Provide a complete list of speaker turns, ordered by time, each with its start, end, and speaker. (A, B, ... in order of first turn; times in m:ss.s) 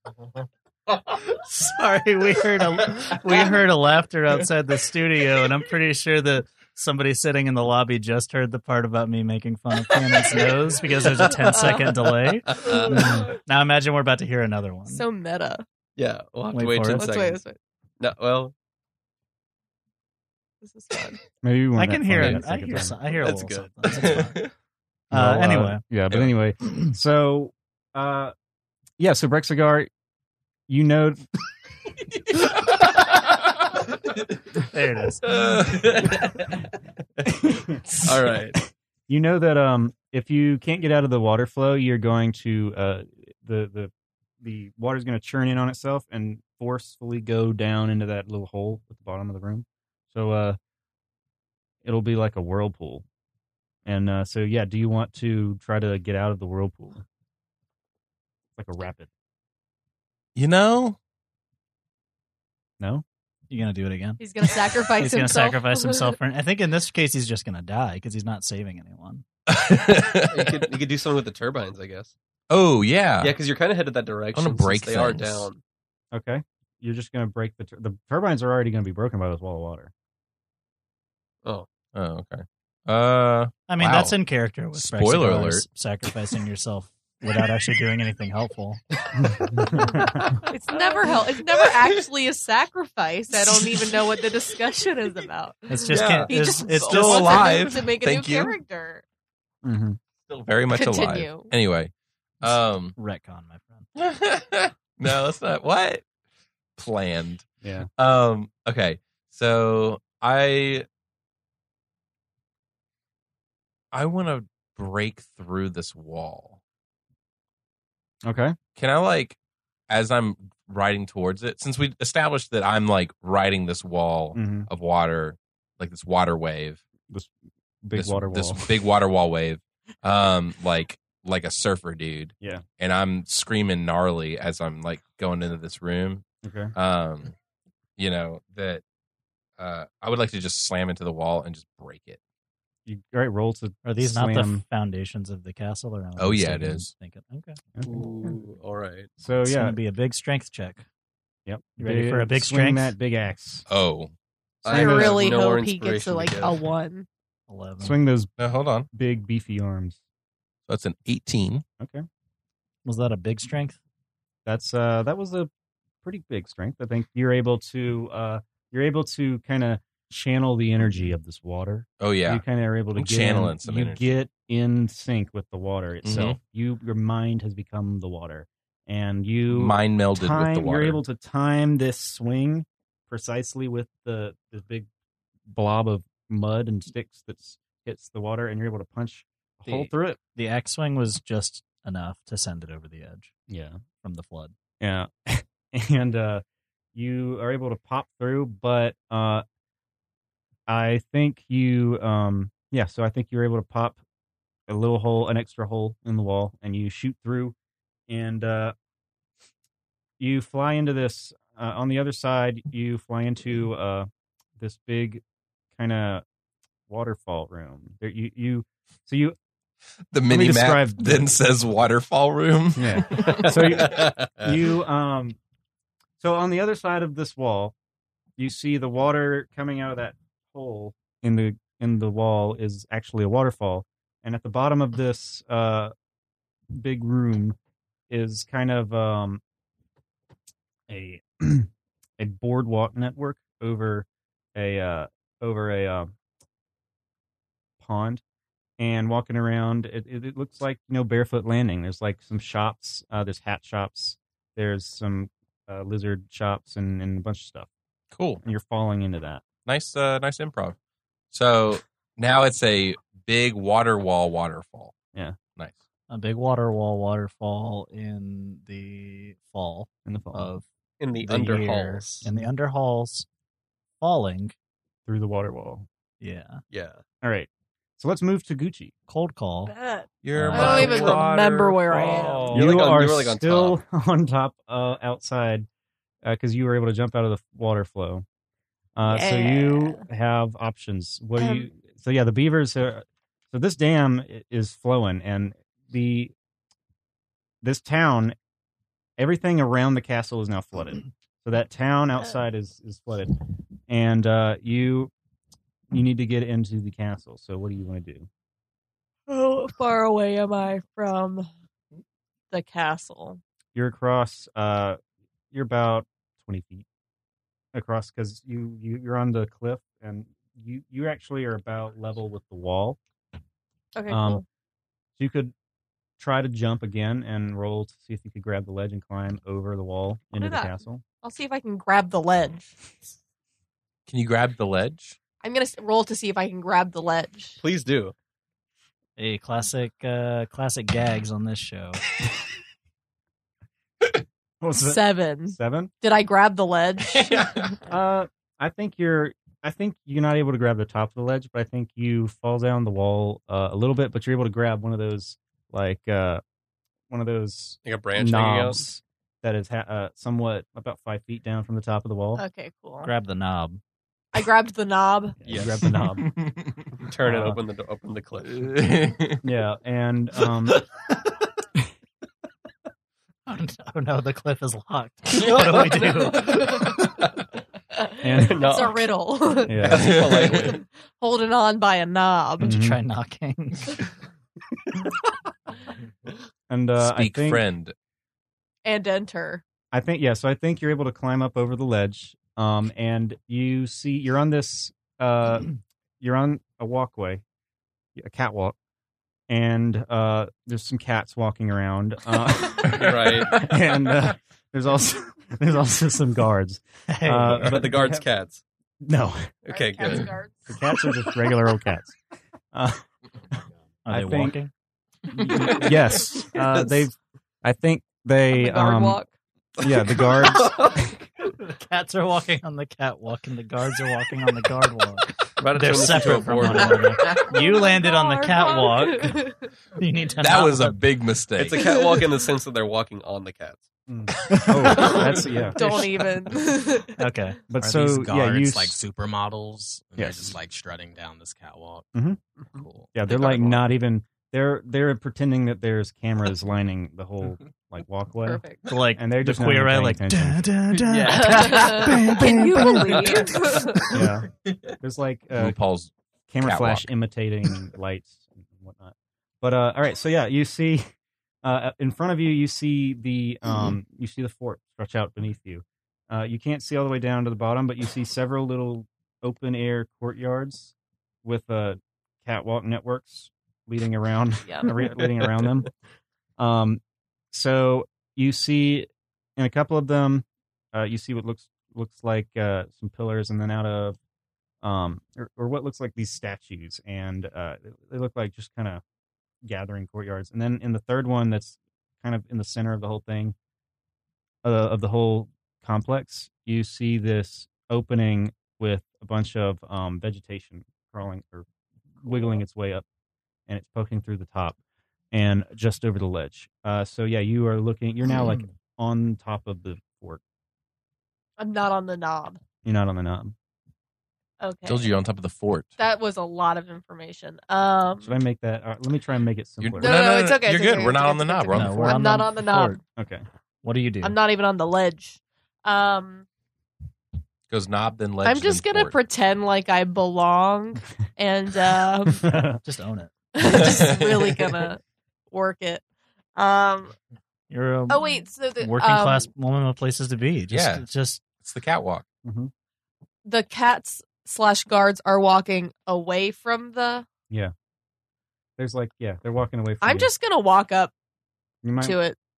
0:01.2-0:15.0 A
0:11.4-0:12.1 B
0:12.5-0:13.2 C
0:14.9-0:15.6 B
0:16.0-0:17.4 C
0:16.5-0:17.1 A
0:16.9-0:17.6 B
0:18.0-0:18.5 C
0:20.6-0:21.2 B
0:21.4-0:23.0 D
0:21.8-0:24.4 A
0:23.1-0:24.4 C
0:25.1-0:25.8 A
0:25.1-0:28.3 D
0:29.0-0:29.9 D
0:30.7-0:31.2 D
0:34.7-0:35.3 A
0:35.3-0:36.1 E
0:35.6-0:36.2 C
0:37.2-0:38.4 D
0:38.0-0:38.6 C
0:39.1-0:50.6 D
0:51.8-0:53.0 D
0:53.8-0:57.0 D
0:58.6-0:59.1 D
1:00.4-1:01.0 E
1:03.5-1:04.2 A
1:04.2-1:06.1 B
1:04.8-1:09.2 A
1:09.5-1:10.6 E
1:10.3-1:12.1 C
1:12.5-1:13.3 E
1:13.2-1:15.6 C
1:14.3-1:15.5 E
1:16.1-1:19.9 D
1:21.9-1:24.2 E
1:23.7-1:28.8 A
1:24.7-1:25.6 E
1:29.2-1:30.3 D
1:30.5-1:39.0 B
1:33.5-1:34.2 E
1:35.7-1:37.5 A
1:35.9-1:38.6 E
1:39.6-1:40.0 D
1:40.3-1:43.0 E
1:40.7-1:41.5 B
1:43.0-1:43.8 A
1:44.0-1:46.0 E
1:46.8-1:47.4 E
1:47.6-1:47.9 D
1:48.0-1:50.9 E
1:53.9-1:56.6 E
1:58.2-1:58.6 D
1:58.8-1:59.4 E
1:59.9-2:06.8 E
2:04.3-2:04.7 D
2:07.8-2:08.7 D
2:07.9-2:16.2 E
2:16.4-2:16.7 D
2:16.7-2:17.3 E
2:18.0-2:18.8 E
2:19.6-2:22.2 E
2:22.8-2:24.6 D
2:23.8-2:27.6 A
2:26.2-2:26.9 E
2:27.8-2:29.1 C
2:29.2-2:29.8 D
2:29.4-2:30.8 A
2:31.4-2:33.6 D
2:31.8-2:32.9 A
2:33.7-2:34.1 E
2:34.6-2:36.6 C
2:34.6-2:35.3 D
2:34.7-2:37.1 B
2:37.5-2:38.0 A
2:37.8-2:38.3 D
2:38.4-2:38.9 E
2:38.9-2:40.0 D
2:40.7-2:41.6 E
2:41.8-2:42.0 D
2:42.8-2:43.8 A
2:44.4-2:45.5 D
2:46.0-3:04.9 D
2:52.0-2:52.4 E
2:52.9-2:54.1 E
2:56.0-2:56.4 E
2:59.5-3:01.0 E
3:05.5-3:10.2 D
3:10.3-3:13.3 A
3:13.5-3:13.8 D
3:14.0-3:14.5 A
3:14.8-3:16.4 D
3:16.9-3:19.4 D
3:20.7-3:24.0 D
3:24.7-3:27.5 D
3:28.1-3:28.7 D
3:30.2-3:35.2 D
3:35.7-3:36.2 D
3:36.9-3:39.4 D
3:40.1-3:44.0 E
3:40.2-3:41.4 D
3:42.8-3:45.4 D
3:43.2-3:44.5 C
3:46.2-3:47.7 D
3:48.4-3:55.9 D
3:56.7-3:57.6 D
3:58.1-3:59.4 D
4:00.9-4:06.1 D
4:07.8-4:08.2 D
4:08.8-4:17.7 D
4:18.1-4:18.4 E
4:18.4-4:19.4 D
4:19.6-4:20.8 E
4:21.3-4:24.9 E
4:26.1-4:30.6 A
4:30.0-4:30.5 D
4:31.0-4:32.2 C
4:31.2-4:33.3 A
4:32.2-4:32.5 D
4:34.0-4:34.5 A
4:35.0-4:35.9 D
4:36.2-4:36.6 A
4:36.7-4:37.0 C
4:37.2-4:38.9 D
4:39.1-4:39.7 A
4:39.6-4:42.6 B
4:40.2-4:42.7 E
4:40.3-4:40.9 A
4:40.5-4:41.0 D
4:40.6-4:41.2 C
4:42.4-4:45.7 D
4:42.4-4:43.8 C
4:46.2-4:48.2 D
4:49.0-4:56.3 D
4:49.0-4:50.0 B
4:51.4-4:51.7 B
4:57.6-4:58.4 D
4:59.2-5:03.3 D
5:03.9-5:05.1 D
5:05.9-5:08.3 D
5:09.3-5:11.5 B
5:12.5-5:13.4 B
5:13.7-5:15.0 D
5:15.5-5:16.8 D
5:17.7-5:23.0 D
5:23.9-5:24.4 B
5:24.1-5:24.4 D
5:25.2-5:25.5 D
5:26.2-5:31.0 D
5:30.4-5:32.8 B
5:34.1-5:35.2 E
5:35.4-5:37.6 B
5:37.6-5:38.1 C
5:39.2-5:42.0 A
5:44.6-5:45.9 D
5:44.8-5:47.7 B
5:47.1-5:47.7 E
5:47.8-5:56.4 D
5:57.1-6:02.4 D
5:57.8-5:58.8 C
6:02.4-6:03.1 B
6:03.0-6:03.8 A
6:04.3-6:05.4 B
6:05.4-6:06.2 D
6:05.4-6:05.8 C
6:06.2-6:06.8 E
6:07.0-6:08.7 C
6:07.2-6:07.6 D
6:08.4-6:09.4 E
6:09.4-6:10.8 D
6:13.4-6:16.7 A
6:15.4-6:17.2 C
6:16.5-6:16.8 B
6:18.1-6:19.9 B
6:18.2-6:18.6 D
6:18.4-6:19.1 C
6:19.7-6:20.1 D
6:19.8-6:20.8 C
6:19.8-6:20.8 E
6:20.5-6:22.7 B
6:22.6-6:23.0 D
6:22.6-6:24.0 A
6:26.7-6:27.6 D
6:27.0-6:27.9 E
6:28.8-6:29.6 B
6:29.9-6:37.4 D
6:38.2-6:38.8 D
6:39.5-6:48.2 D
6:42.9-6:43.7 C
6:47.1-6:47.8 A
6:47.6-6:48.6 C
6:49.0-6:49.5 D
6:49.6-6:50.3 C
6:49.7-6:50.8 B
6:50.7-6:52.2 D
6:52.7-6:53.0 D
6:54.0-6:54.7 A
6:54.1-6:54.6 D
6:55.3-6:59.2 D
6:58.5-6:59.3 B
6:59.8-7:01.1 D
7:00.3-7:00.9 C
7:01.6-7:09.4 A
7:05.6-7:07.4 C
7:06.6-7:07.0 D
7:07.0-7:09.7 B
7:10.0-7:11.0 A
7:10.4-7:11.9 E
7:11.6-7:13.9 C
7:14.1-7:15.8 D
7:14.6-7:16.0 C
7:15.0-7:17.2 B
7:17.2-7:18.2 A
7:17.7-7:19.0 D
7:17.8-7:22.1 F
7:20.2-7:20.6 D
7:22.1-7:22.4 D
7:22.6-7:23.1 F
7:23.1-7:28.6 D
7:28.4-7:28.8 B
7:28.9-7:33.4 A
7:29.1-7:30.7 D
7:31.1-7:32.2 C
7:31.2-7:34.2 B
7:34.1-7:34.5 D
7:35.0-7:35.8 D
7:35.5-7:37.1 E
7:36.5-7:41.1 D
7:41.6-7:55.9 D
7:54.6-7:54.9 B
7:55.3-7:55.7 C
7:56.6-8:04.2 D
8:04.8-8:09.0 D
8:09.6-8:13.5 D
8:14.6-8:21.7 D
8:22.2-8:23.0 D
8:23.7-8:24.8 D
8:25.3-8:30.4 D
8:31.6-8:32.6 B
8:32.8-8:33.5 D
8:34.6-8:35.2 B
8:34.8-8:35.9 E
8:36.0-8:38.3 B
8:38.2-8:40.1 D
8:39.8-8:42.2 E
8:40.0-8:43.0 B
8:41.7-8:43.0 A
8:43.2-8:43.4 D
8:43.8-8:44.4 A
8:44.2-8:46.4 B
8:47.7-8:49.2 E
8:48.4-8:52.5 B
8:52.4-8:52.8 D
8:52.8-8:53.3 A
8:53.5-8:56.0 B
8:53.6-8:54.8 E
8:56.6-8:57.1 B
8:57.7-8:58.2 A
8:58.1-8:59.5 B
8:58.8-9:01.4 A
9:00.7-9:01.0 E
9:01.6-9:02.2 E
9:02.4-9:02.7 D
9:03.4-9:07.2 B
9:08.8-9:10.3 D
9:10.0-9:11.1 B
9:11.8-9:12.2 D
9:12.0-9:12.4 B